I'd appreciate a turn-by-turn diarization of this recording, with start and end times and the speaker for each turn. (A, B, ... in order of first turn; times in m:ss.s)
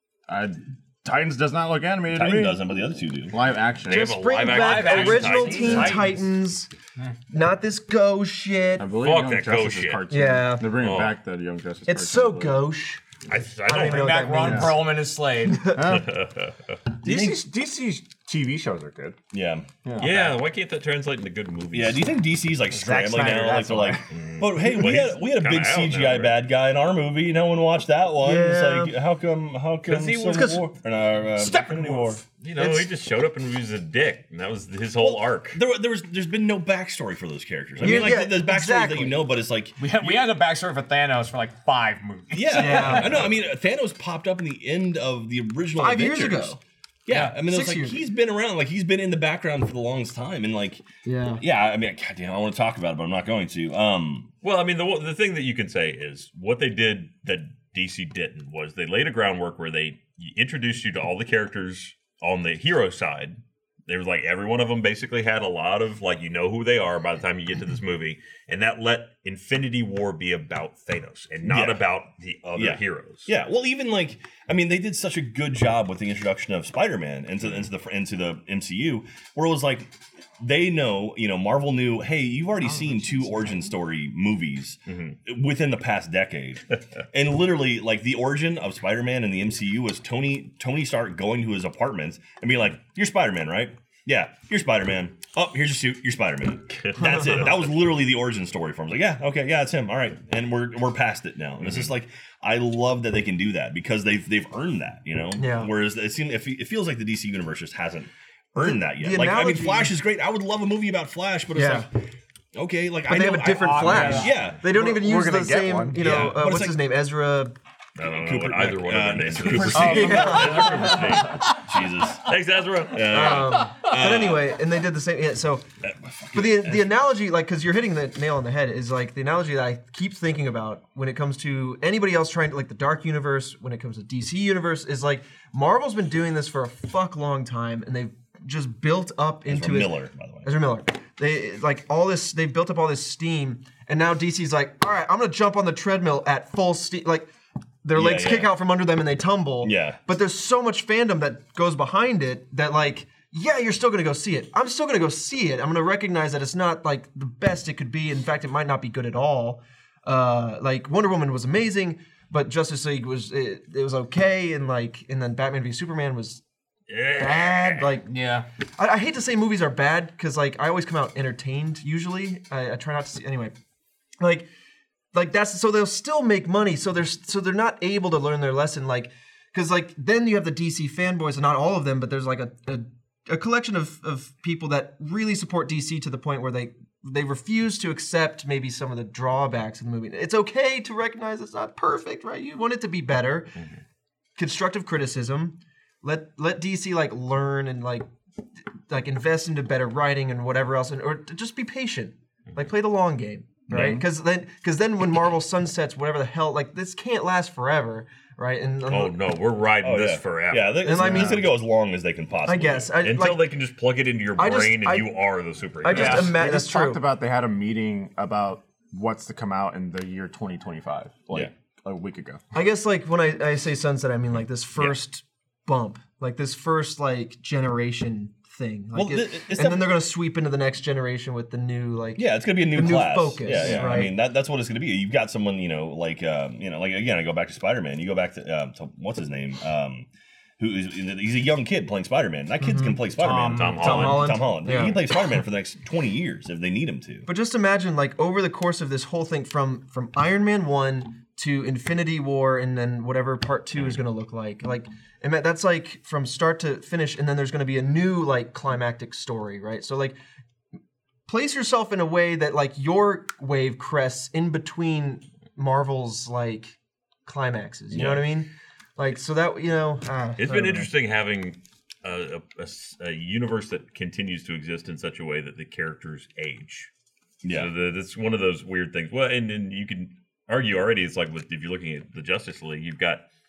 0:00.3-0:02.6 A
0:02.1-0:03.4 B
0:03.3-0:04.2 A
0:03.8-0:06.0 C
0:03.9-0:06.7 D
0:04.4-0:06.3 E
0:05.6-0:06.0 A
0:07.3-0:08.9 D
0:08.8-0:12.6 A
0:08.9-0:10.0 C
0:10.1-0:10.8 D
0:10.8-0:11.1 C
0:11.8-0:13.0 D
0:13.3-0:14.4 C
0:13.6-0:14.9 D
0:13.7-0:15.7 E
0:14.4-0:14.9 A
0:15.5-0:16.0 D
0:15.7-0:16.1 A
0:15.8-0:16.8 C
0:17.0-0:19.2 A
0:19.3-0:20.3 B
0:19.8-0:20.3 A
0:20.0-0:22.1 C
0:21.7-0:32.2 B
0:22.7-0:24.1 A
0:24.1-0:26.4 C
0:28.2-0:28.9 D
0:29.9-0:30.4 E
0:30.1-0:30.7 D
0:32.4-0:35.6 C
0:32.6-0:32.8 D
0:35.0-0:40.3 B
0:37.8-0:39.2 D
0:39.8-0:43.3 E
0:42.3-0:50.8 B
0:42.5-0:43.4 D
0:45.8-0:46.6 D
0:47.1-0:48.0 D
0:51.0-0:51.4 D
0:51.4-0:54.3 B
0:54.4-1:13.3 C
1:11.4-1:11.9 B
1:12.5-1:51.9 B
1:22.6-1:23.8 D
1:24.9-1:25.2 C
1:36.7-1:37.5 C
1:41.6-1:41.9 C
1:45.4-1:45.7 D
1:48.6-1:49.9 D
1:51.5-1:51.9 D
1:52.5-1:54.6 B
1:53.0-1:57.5 D
1:53.5-1:54.4 E
1:54.6-1:56.2 A
1:56.0-1:56.8 B
1:58.0-2:01.4 C
1:58.0-2:02.3 B
1:59.5-2:01.1 D
1:59.7-2:01.0 A
2:02.2-2:03.5 C
2:02.9-2:04.6 B
2:03.0-2:05.6 D
2:05.8-2:06.9 B
2:06.3-2:27.3 D
2:19.5-2:20.5 B
2:27.8-2:46.4 D
2:27.9-2:28.5 B
2:29.6-2:30.0 B
2:46.9-2:47.9 C
2:47.2-2:48.1 D
2:48.0-2:48.4 E
2:48.8-2:53.5 D
2:54.2-2:54.5 D
2:55.1-3:13.5 D
3:14.4-3:18.0 D
3:18.9-3:29.2 D
3:23.7-3:24.0 B
3:28.9-3:31.2 C
3:29.8-3:32.9 B
3:30.8-3:31.5 D
3:32.4-3:33.4 D
3:33.0-3:36.4 C
3:34.4-3:35.1 D
3:35.8-3:37.0 D
3:35.9-3:42.4 A
3:42.5-3:54.1 D
3:48.9-3:50.0 B
3:52.2-4:00.1 B
4:00.6-4:07.3 B
4:02.6-4:03.0 D
4:03.2-4:04.0 E
4:03.5-4:04.4 C
4:03.8-4:05.0 D
4:07.3-4:20.2 D
4:21.3-4:30.9 D
4:27.9-4:28.3 B
4:30.4-4:36.9 C
4:37.4-4:37.7 B
4:37.5-4:43.2 C